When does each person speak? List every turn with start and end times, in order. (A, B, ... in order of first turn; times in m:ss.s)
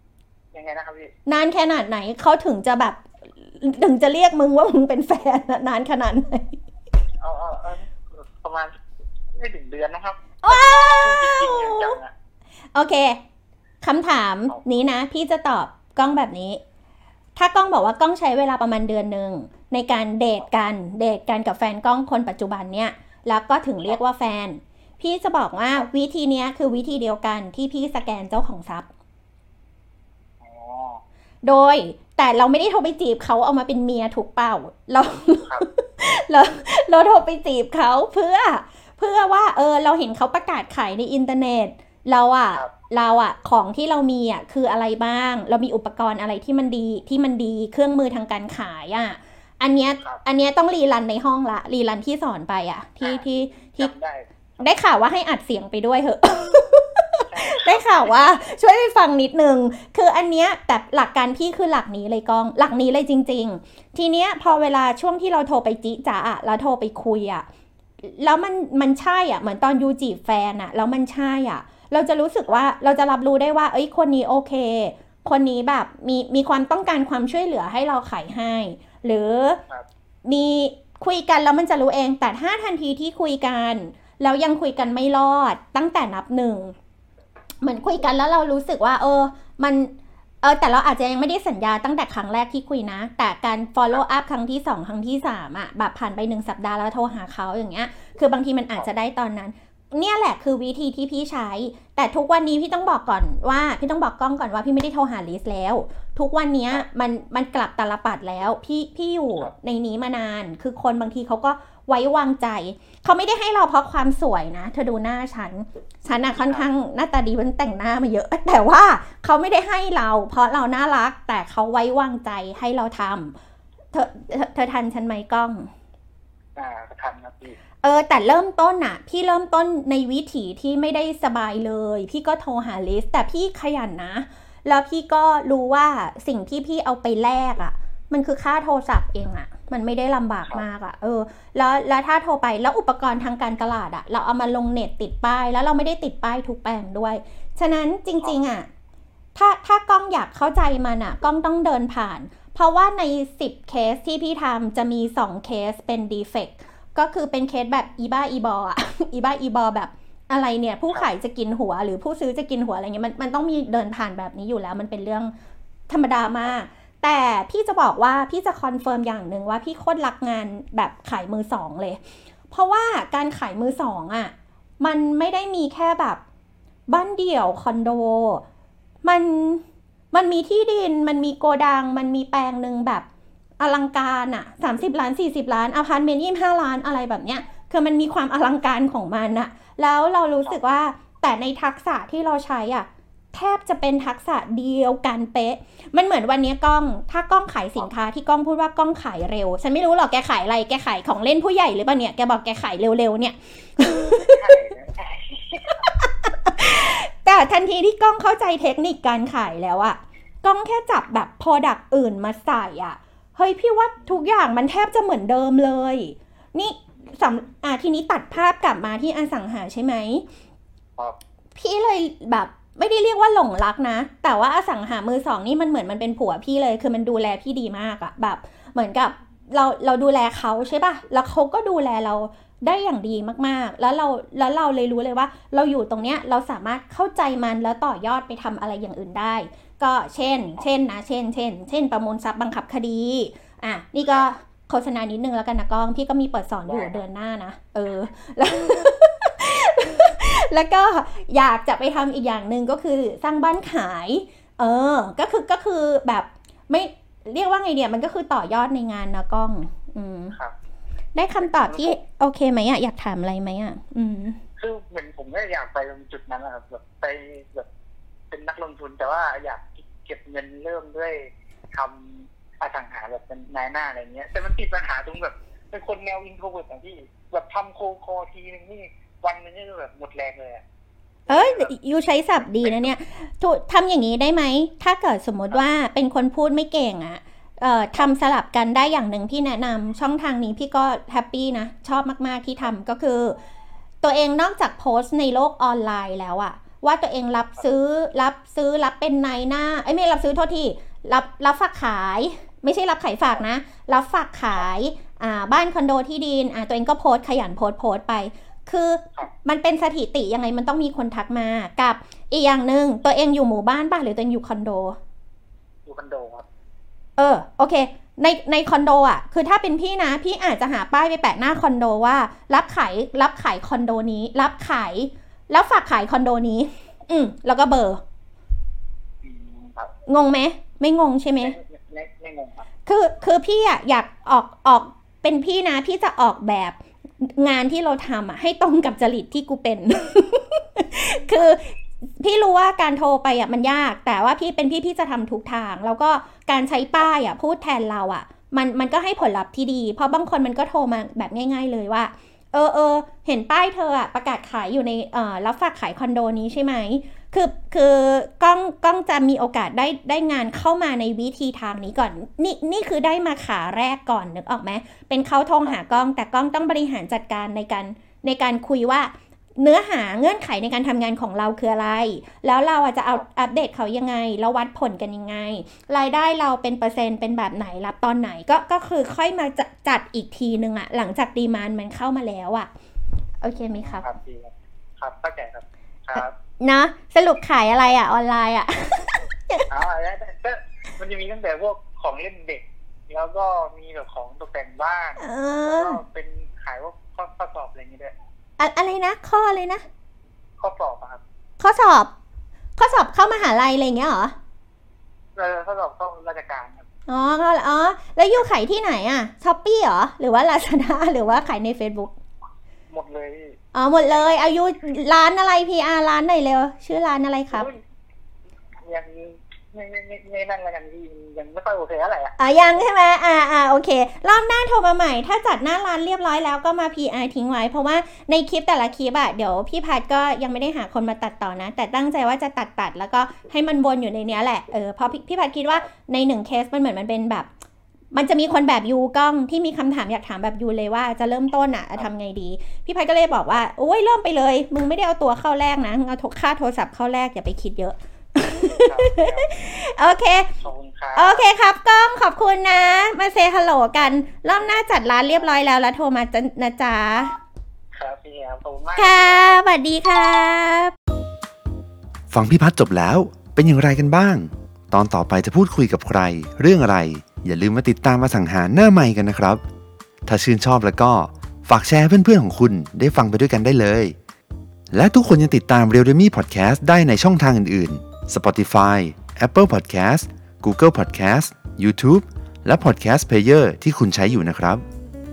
0:00.5-0:01.1 A
0:01.3-0:06.6 B
0:07.2-0:08.7 A
0:09.3-0:12.1 A
0:10.4-0:12.0 B
0:12.7-0:13.2 B
0:13.8-0:16.6 B
0:17.4-0:28.9 B
0:30.4-0:31.0 A
0:31.4-0:53.9 B
0:53.0-0:54.8 A
0:54.6-1:07.4 B
0:57.2-0:58.4 A
1:08.0-1:19.6 B
1:20.2-1:26.8 B
1:27.6-2:03.4 B
1:56.4-1:56.7 A
2:03.9-2:05.7 B
2:06.6-2:07.6 A
2:07.8-2:28.7 B
2:29.4-2:45.3 B
2:45.9-2:52.0 B
2:52.5-2:56.2 B
2:56.9-2:58.4 B
2:59.0-3:03.0 B
3:03.6-3:24.4 B
3:24.0-3:25.8 A
3:25.8-3:40.2 B
3:41.6-4:20.4 B
4:06.7-4:07.0 A
4:21.2-4:24.4 B
4:21.4-4:22.0 A
4:24.6-4:27.7 A
4:28.3-4:40.6 A
4:41.3-4:53.4 B
4:41.3-4:41.7 A
4:42.5-4:42.9 A
4:54.0-5:15.0 B
5:15.9-5:16.4 A
5:17.2-5:28.0 B
5:29.2-5:29.9 A
5:30.1-5:31.6 B
5:31.4-5:32.6 A
5:32.9-6:22.7 B
6:05.6-6:06.0 A
6:23.4-6:24.1 B
6:23.8-6:26.3 A
6:26.2-6:29.7 B
6:29.7-6:38.1 A
6:35.2-6:36.0 B
6:38.6-6:39.8 B
6:40.6-6:41.2 A
6:41.6-6:42.1 B
6:42.8-6:44.4 B
6:45.4-6:46.8 A
6:47.1-6:52.1 B
6:52.9-6:54.4 A
6:53.7-6:57.7 B
6:57.5-6:57.8 A
6:58.8-7:02.4 A
7:02.4-7:17.5 B
7:18.1-7:30.5 B
7:28.5-7:29.5 A
7:30.6-7:31.5 A
7:31.2-7:37.4 B
7:37.9-7:39.6 A
7:39.0-7:40.9 B
7:42.3-7:49.6 C
7:50.2-7:54.2 C
7:54.9-8:04.8 C